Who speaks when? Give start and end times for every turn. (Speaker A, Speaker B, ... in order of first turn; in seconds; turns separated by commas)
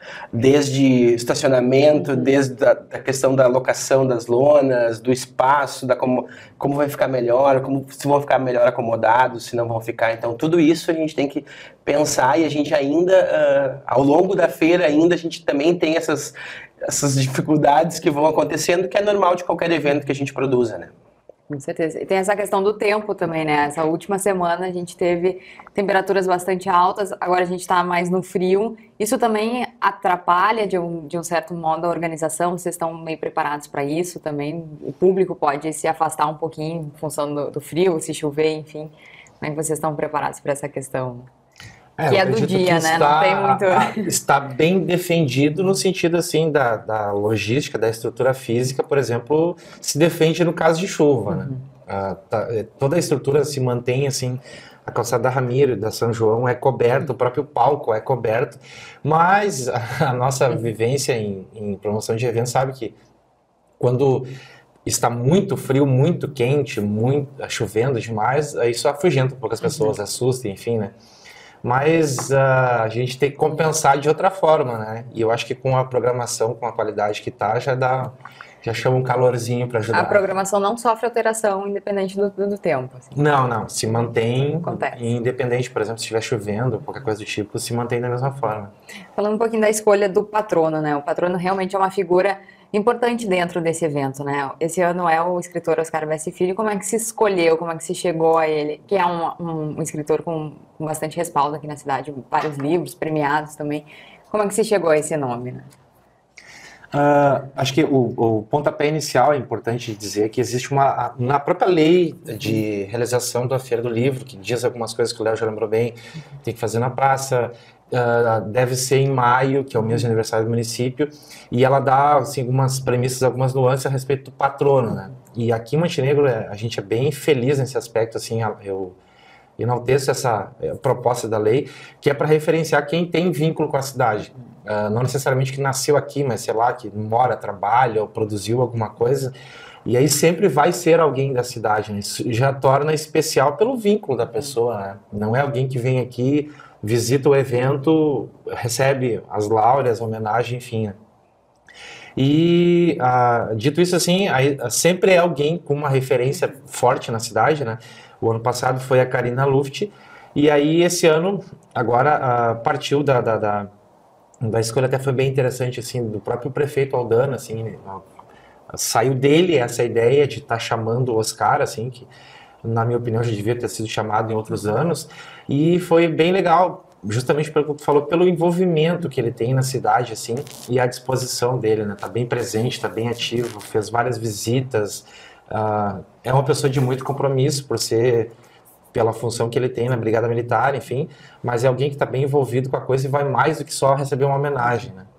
Speaker A: 0.3-20.9, Speaker B: 21.5-41.3, Speaker C: 42.0-62.9, Speaker B: 42.1-44.1, Speaker C: 63.8-64.3, Speaker C: 64.8-70.9, Speaker C: 71.6-80.2, Speaker B: 79.9-83.2, Speaker C: 83.1-88.7, Speaker B: 84.6-85.0, Speaker B: 89.1-105.7, Speaker C: 106.9-129.0, Speaker C: 129.6-139.3, Speaker C: 139.8-151.0, Speaker C: 152.2-163.7, Speaker C: 164.4-168.0, Speaker C: 168.7-172.1, Speaker C: 172.6-188.3, Speaker C: 188.9-195.1